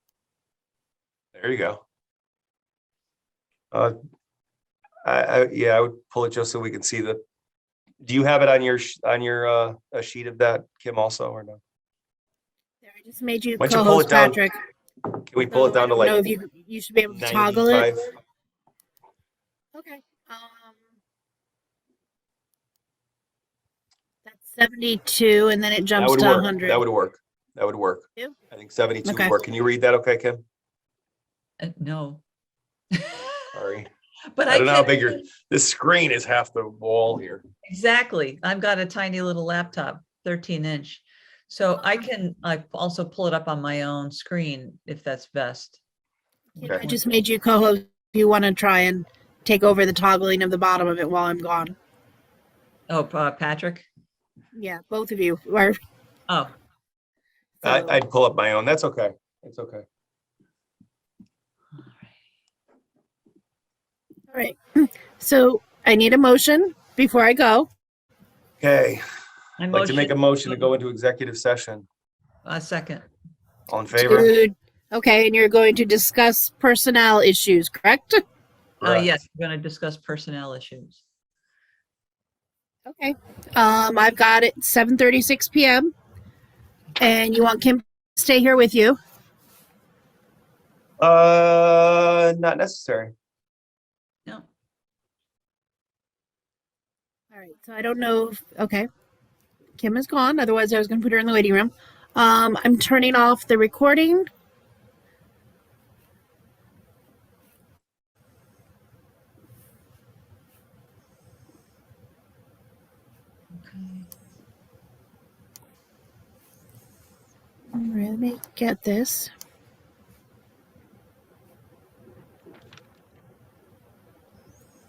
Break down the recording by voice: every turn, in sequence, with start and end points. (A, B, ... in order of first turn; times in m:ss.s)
0:01.3-0:01.8 A
0:05.0-0:07.2 A
0:08.0-0:11.6 A
0:12.8-0:14.5 B
0:13.6-0:14.4 A
0:15.2-0:16.2 A
0:15.5-0:17.9 B
0:17.1-0:18.0 A
0:19.7-0:20.8 B
0:24.3-0:26.8 B
0:26.0-0:30.4 A
0:29.0-0:29.3 B
0:31.6-0:32.2 C
0:32.9-0:33.5 C
0:33.5-0:33.9 A
0:34.3-0:35.1 C
0:34.5-0:37.4 A
0:37.7-0:45.8 C
0:46.6-0:47.0 C
0:46.6-0:51.8 B
0:52.9-0:53.9 C
0:54.5-0:55.8 B
0:57.6-0:59.8 A
0:57.6-0:58.0 B
1:04.3-1:07.7 B
1:08.6-1:09.0 A
1:09.6-1:10.7 C
1:09.7-1:11.8 A
1:12.4-1:13.0 C
1:13.7-1:14.3 A
1:13.9-1:18.2 B
1:18.8-1:21.0 C
1:18.8-1:19.1 A
1:22.9-1:25.9 B
1:27.0-1:29.0 B
1:31.0-1:33.1 A
1:37.3-1:38.9 B
1:39.8-1:44.3 B
1:53.5-1:54.1 C
1:57.7-1:59.3 B